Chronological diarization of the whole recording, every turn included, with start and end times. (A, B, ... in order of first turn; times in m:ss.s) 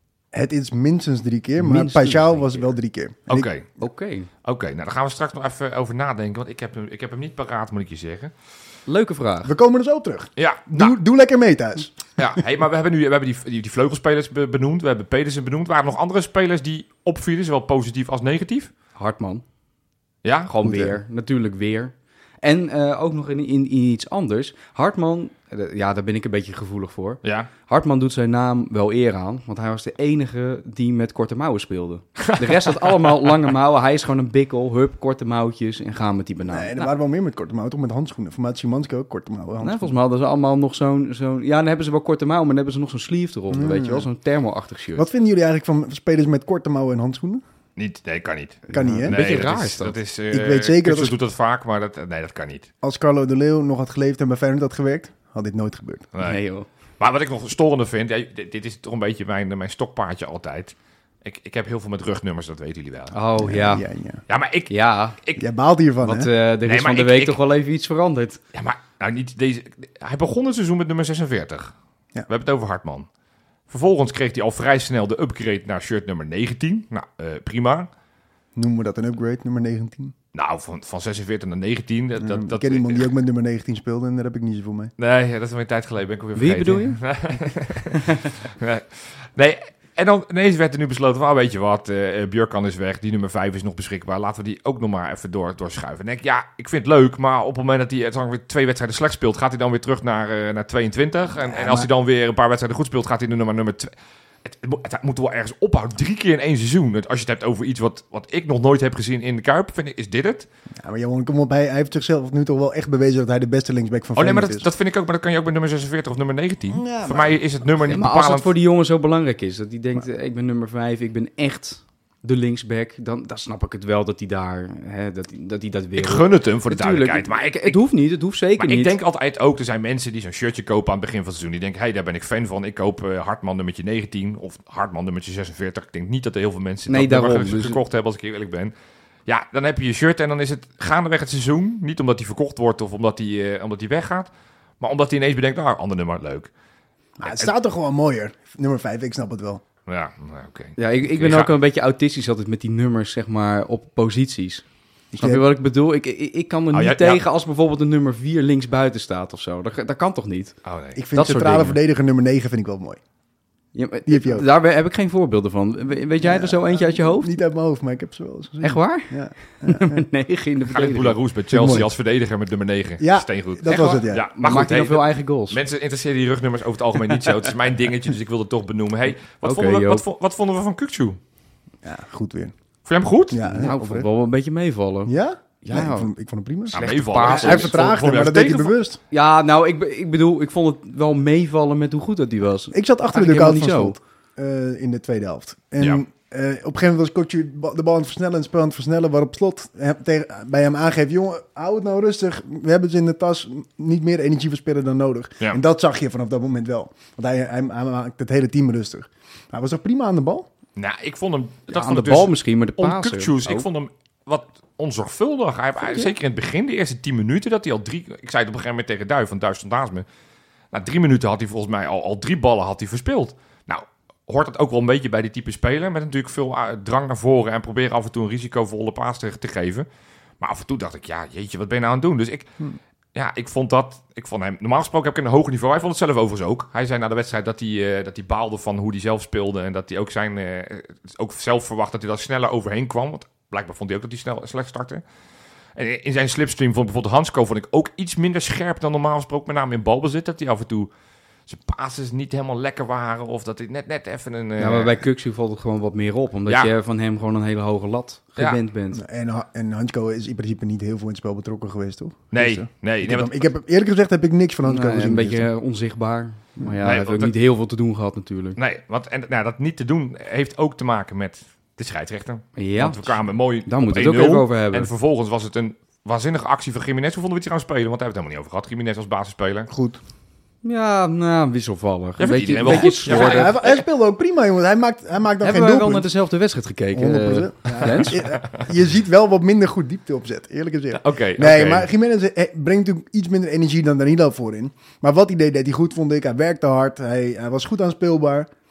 0:00.3-0:03.5 A
0:01.6-0:02.7 B
0:03.3-0:03.7 C
0:03.8-0:04.3 B
0:04.4-0:08.3 C
0:08.9-0:09.5 B
0:09.4-0:11.9 A
0:10.4-0:11.0 C
0:12.2-0:18.7 C
0:19.0-0:19.4 B
0:20.2-0:20.5 C
0:20.5-0:36.9 B
0:20.6-0:21.0 A
0:27.2-0:27.5 C
0:32.2-0:33.3 C
0:36.5-0:40.0 A
0:39.6-0:45.1 B
0:43.5-0:44.1 A
0:45.0-0:47.4 A
0:47.8-0:52.7 C
0:48.7-0:50.0 B
0:48.7-0:49.2 A
0:50.3-0:51.2 A
0:52.8-0:56.1 A
0:56.1-0:56.4 C
0:56.2-0:56.7 B
0:57.0-1:03.2 C
1:03.1-1:03.8 B
1:03.4-1:04.2 A
1:04.3-1:05.4 C
1:04.7-1:05.2 B
1:05.4-1:06.3 A
1:06.0-1:08.4 B
1:06.6-1:07.4 C
1:08.5-1:11.7 C
1:12.3-1:13.1 C
1:13.7-1:17.9 C
1:18.6-1:20.1 A
1:20.3-1:23.1 C
1:22.2-1:24.9 A
1:25.0-1:43.9 C
1:26.4-1:27.0 B
1:41.4-1:41.9 A
1:44.4-1:50.5 C
1:50.8-1:54.7 A
1:54.2-1:58.5 C
1:56.7-1:57.4 A
1:57.9-2:09.0 B
2:06.0-2:07.8 C
2:08.6-2:18.7 C
2:16.9-2:17.8 B
2:19.3-2:24.3 C
2:24.8-2:26.5 C
2:27.2-2:29.6 A
2:27.3-2:27.5 C
2:29.9-2:31.5 C
2:30.8-2:34.6 B
2:35.1-2:35.5 A
2:35.2-2:40.6 B
2:36.7-2:37.2 C
2:40.6-2:41.0 C
2:41.0-2:43.0 A
2:41.2-2:41.8 B
2:43.7-2:47.3 B
2:44.1-2:44.5 A
2:46.2-2:50.0 A
2:48.6-2:51.2 B
2:50.7-3:01.2 C
2:51.5-2:51.9 A
2:53.0-2:54.3 A
2:53.7-2:55.6 B
2:59.4-3:00.0 B
3:01.8-3:02.5 A
3:02.9-3:03.6 C
3:03.3-3:04.1 A
3:03.6-3:06.1 B
3:05.1-3:09.0 A
3:06.7-3:07.8 B
3:06.7-3:08.8 C
3:09.1-3:14.0 B
3:12.7-3:30.5 A
3:30.8-3:40.0 C
3:31.7-3:33.7 B
3:40.7-3:49.9 C
3:50.4-3:52.6 C
3:53.2-4:05.0 C
4:05.8-4:10.9 C
4:11.5-4:15.0 C
4:14.6-4:19.0 B
4:18.9-4:25.5 A
4:22.3-4:23.4 C
4:24.6-4:28.6 B
4:26.8-4:27.3 C
4:28.6-4:39.7 C
4:32.6-4:34.9 B
4:39.7-4:40.0 A
4:40.6-4:43.6 B
4:42.2-4:43.8 C
4:42.7-4:46.1 A
4:45.4-4:48.2 B
4:46.9-4:58.5 A
4:47.8-4:48.6 C
4:50.9-4:51.9 C